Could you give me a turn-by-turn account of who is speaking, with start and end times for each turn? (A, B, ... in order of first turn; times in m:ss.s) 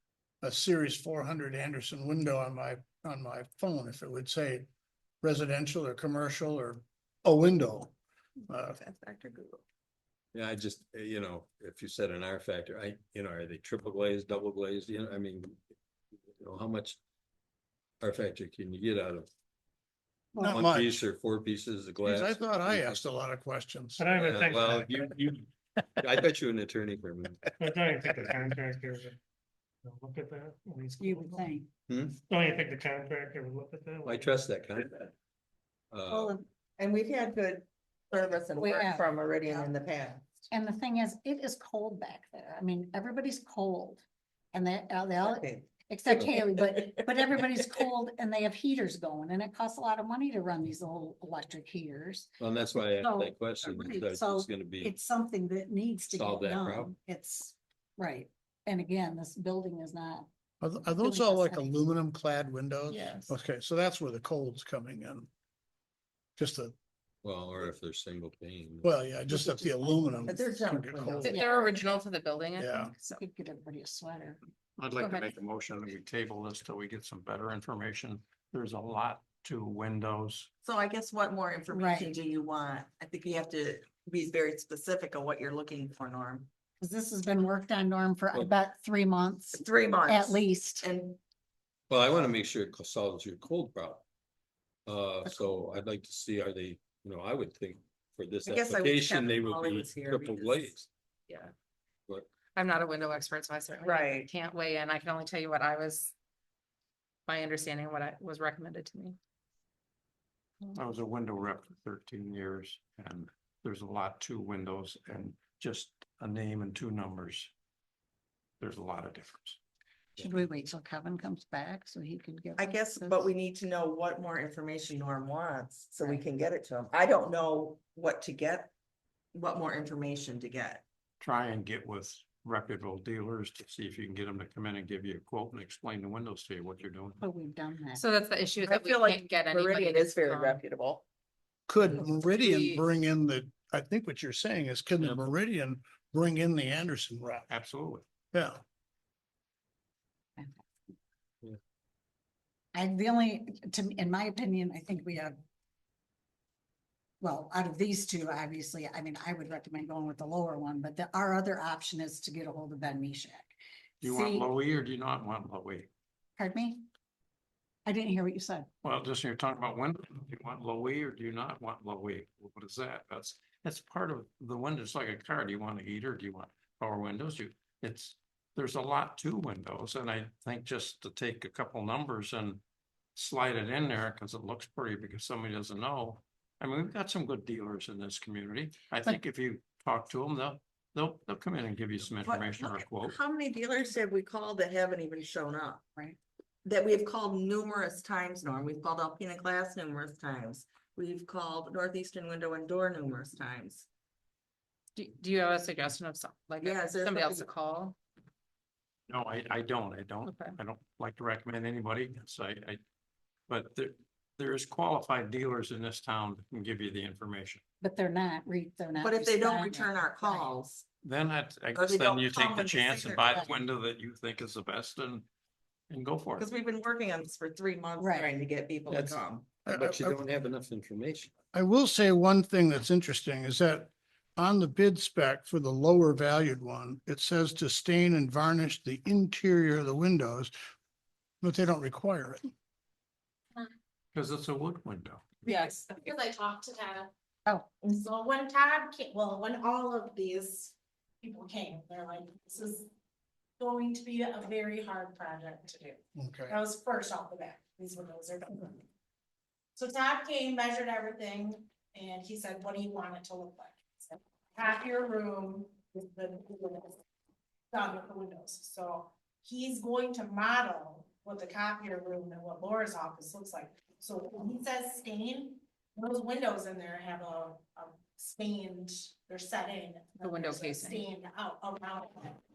0:00.4-0:04.7 A
0:05.2-0:07.9 A
0:08.5-0:08.8 A
0:08.6-0:09.6 B
0:10.3-0:15.6 C
0:16.4-0:17.0 C
0:18.0-0:19.3 C
0:20.4-0:21.0 A
0:20.5-0:23.0 C
0:22.0-0:24.1 A
0:24.0-0:25.1 D
0:24.1-0:27.4 C
0:27.6-0:29.2 D
0:29.8-0:31.6 D
0:31.0-0:31.7 E
0:31.9-0:32.2 C
0:32.3-0:34.5 D
0:34.0-0:35.1 C
0:35.9-0:36.4 C
0:36.1-0:36.4 E
0:36.8-0:40.3 B
0:38.6-0:39.7 E
0:40.5-0:52.4 E
0:45.2-0:45.7 B
0:52.4-0:55.0 C
0:53.0-1:00.3 E
0:56.1-0:56.9 C
1:00.6-1:05.3 A
1:00.9-1:01.7 E
1:02.9-1:03.3 F
1:06.4-1:06.8 A
1:07.2-1:08.9 C
1:08.8-1:11.4 A
1:09.3-1:10.6 E
1:10.3-1:11.7 B
1:11.2-1:13.2 F
1:11.3-1:11.7 E
1:12.6-1:12.9 A
1:13.0-1:14.4 E
1:14.8-1:20.5 G
1:15.0-1:15.3 F
1:20.6-1:26.5 B
1:21.7-1:22.2 E
1:26.8-1:30.9 E
1:29.5-1:31.2 B
1:31.9-1:34.0 C
1:34.9-1:40.9 C
1:38.4-1:40.7 B
1:42.5-1:46.1 F
1:43.8-1:44.3 B
1:47.3-1:49.2 F
1:50.7-1:57.5 G
1:58.6-1:59.6 G
2:00.2-2:03.3 E
2:02.6-2:08.7 B
2:09.3-2:10.8 B
2:11.2-2:17.2 G
2:17.2-2:18.0 E
2:18.0-2:20.6 F
2:18.6-2:21.0 B
2:21.7-2:27.5 A
2:22.2-2:22.9 F
2:27.5-2:28.0 G
2:28.3-2:28.6 A
2:30.4-2:30.6 E
2:32.7-2:35.4 E
2:37.2-2:44.5 E
2:44.0-2:45.9 G
2:46.4-2:46.9 E
2:47.9-2:48.7 E
2:48.8-3:02.6 G
3:03.2-3:13.2 G
3:12.2-3:15.8 B
3:16.6-3:23.9 B
3:25.0-3:28.0 F
3:26.6-3:27.5 B
3:29.1-3:32.8 G
3:30.2-3:30.6 F
3:33.5-3:37.6 G
3:37.8-3:40.6 E
3:39.0-3:40.8 B
3:41.0-3:45.3 G
3:41.8-3:43.4 B
3:45.9-3:46.5 G
3:46.4-3:49.6 B
3:48.0-3:48.3 E
3:48.9-3:51.3 C
3:49.7-3:50.2 A
3:51.5-4:00.5 A
4:01.4-4:02.5 A
4:04.1-4:05.3 G
4:05.4-4:07.1 H
4:05.5-4:05.8 F
4:07.9-4:12.9 H
4:13.6-4:18.8 H
4:16.2-4:16.6 A
4:19.8-4:27.0 H
4:27.7-4:42.4 H
4:40.2-4:41.1 F